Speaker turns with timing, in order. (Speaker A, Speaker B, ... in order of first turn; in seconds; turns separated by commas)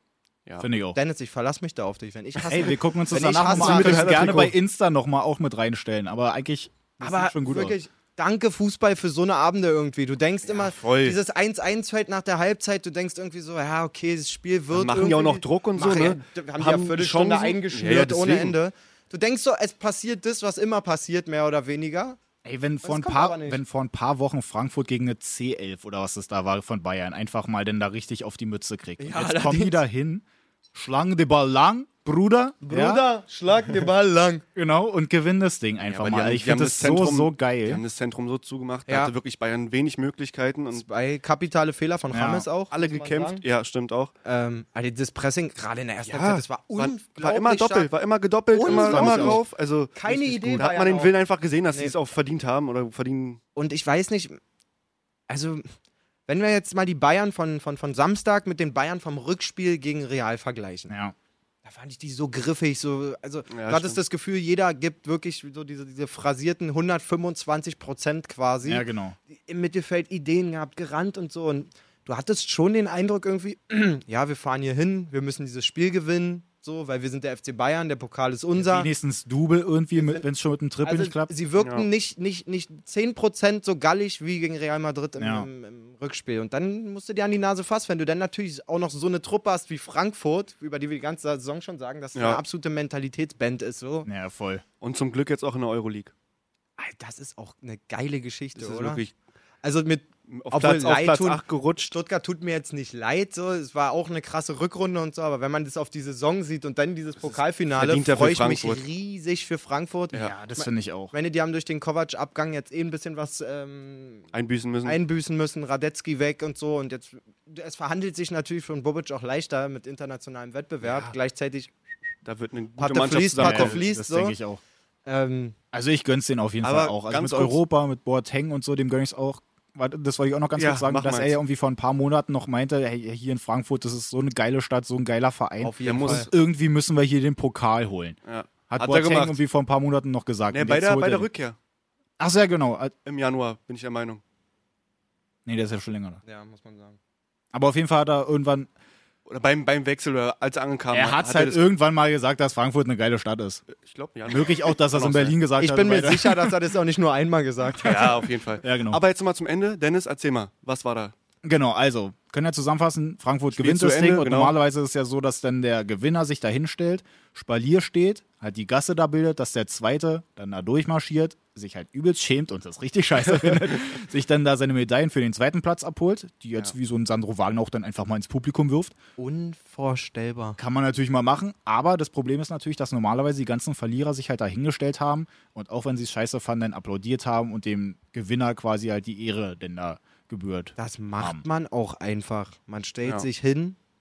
Speaker A: 0.6-1.0, Speaker B: 0.9-4.5, Speaker A: 2.5-7.8, Speaker C: 3.5-4.5, Speaker B: 7.0-22.2, Speaker C: 10.4-11.2, Speaker C: 14.7-18.6, Speaker A: 22.4-33.0, Speaker B: 22.8-23.6, Speaker B: 29.0-29.8, Speaker B: 32.6-34.4, Speaker A: 34.5-37.8, Speaker C: 35.9-40.9, Speaker B: 38.9-39.1, Speaker B: 40.7-43.4, Speaker A: 42.1-42.5, Speaker C: 42.7-44.1, Speaker B: 44.2-47.9, Speaker C: 46.1-53.4, Speaker B: 48.5-49.4, Speaker A: 48.6-49.4, Speaker B: 50.0-51.1, Speaker B: 53.5-54.4, Speaker B: 55.3-55.7, Speaker B: 56.3-60.9, Speaker A: 60.9-61.1, Speaker B: 61.6-78.9, Speaker C: 63.5-64.0, Speaker A: 68.7-69.2, Speaker A: 78.6-81.3, Speaker B: 80.0-80.2, Speaker B: 80.8-94.1, Speaker C: 81.6-81.9, Speaker A: 85.2-85.5, Speaker C: 92.2-92.4, Speaker A: 94.1-94.6, Speaker C: 94.8-96.1, Speaker B: 96.8-99.0, Speaker C: 98.6-99.1, Speaker B: 99.6-114.3, Speaker C: 100.3-102.0, Speaker C: 107.8-108.8, Speaker A: 110.2-111.1, Speaker C: 114.3-115.0, Speaker B: 114.8-121.7, Speaker C: 122.2-123.8, Speaker B: 122.8-124.4, Speaker A: 123.4-124.6, Speaker B: 125.1-125.6, Speaker A: 125.7-138.2, Speaker C: 126.6-127.6, Speaker C: 130.6-131.4, Speaker B: 135.6-136.3, Speaker C: 135.8-136.3, Speaker C: 138.3-139.4, Speaker A: 138.7-141.3, Speaker C: 140.5-141.6, Speaker A: 142.2-142.9, Speaker C: 143.1-144.2, Speaker A: 145.4-146.2, Speaker B: 146.2-147.0, Speaker A: 147.5-148.7, Speaker C: 149.3-151.6, Speaker A: 150.9-153.6, Speaker C: 153.7-155.4, Speaker A: 154.3-156.5, Speaker B: 155.6-158.2, Speaker C: 157.8-161.1, Speaker A: 158.6-159.0, Speaker A: 161.4-179.0, Speaker C: 163.6-164.6, Speaker B: 179.2-180.6, Speaker A: 180.6-191.4, Speaker B: 190.8-193.8